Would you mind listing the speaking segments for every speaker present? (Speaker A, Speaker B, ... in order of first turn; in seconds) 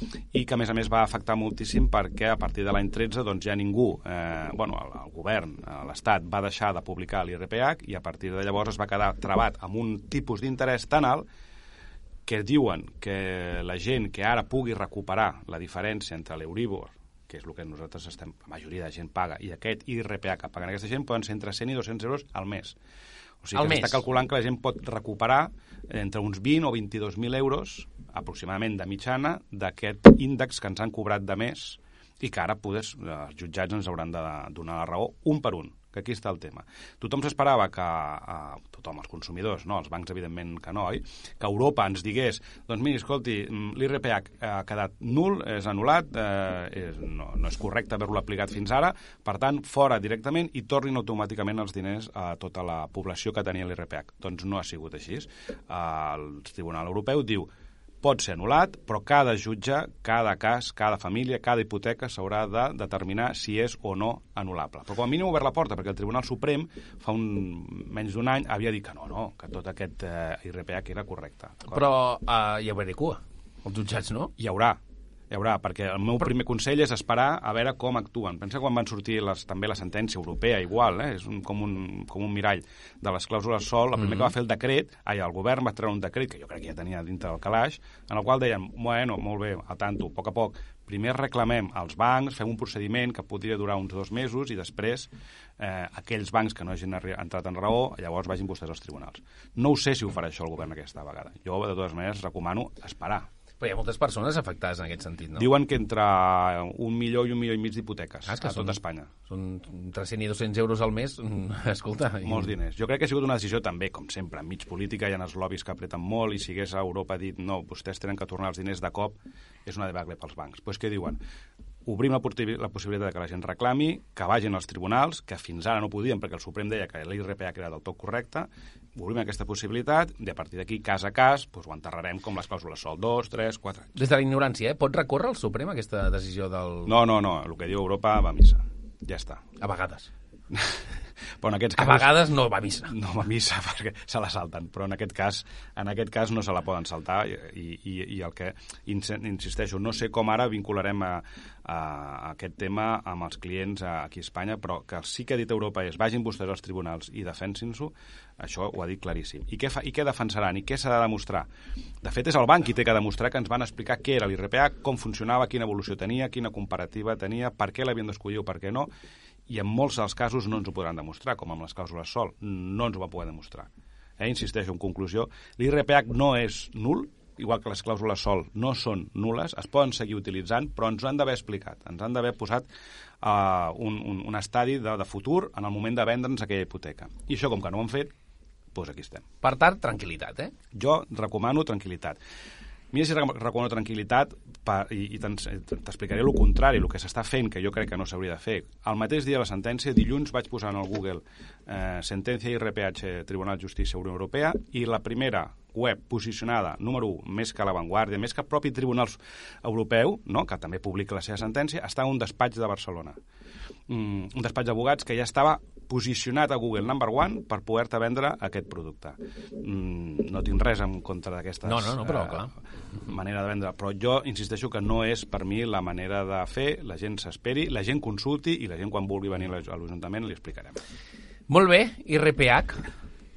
Speaker A: 0.3-11.3, 12.3-22.8, 23.4-57.5, 58.0-71.9, 74.4-103.3, 105.4-109.1, 112.2-121.2, 121.9-134.0, 136.9-139.5, 140.5-140.8, 141.4-142.3, 142.9-161.5, 162.0-168.9, 169.5-182.7, 183.2-188.1, 188.7-189.3, 190.7-192.2, 192.9-213.2, 213.9-222.6, 223.1-230.8
Speaker B: 23.6-24.0, 71.7-74.3, 84.0-84.3, 103.6-105.5, 108.3-112.5, 134.0-136.9, 139.6-140.1, 141.8-142.9, 189.4-190.5, 221.7-222.5, 231.5-232.9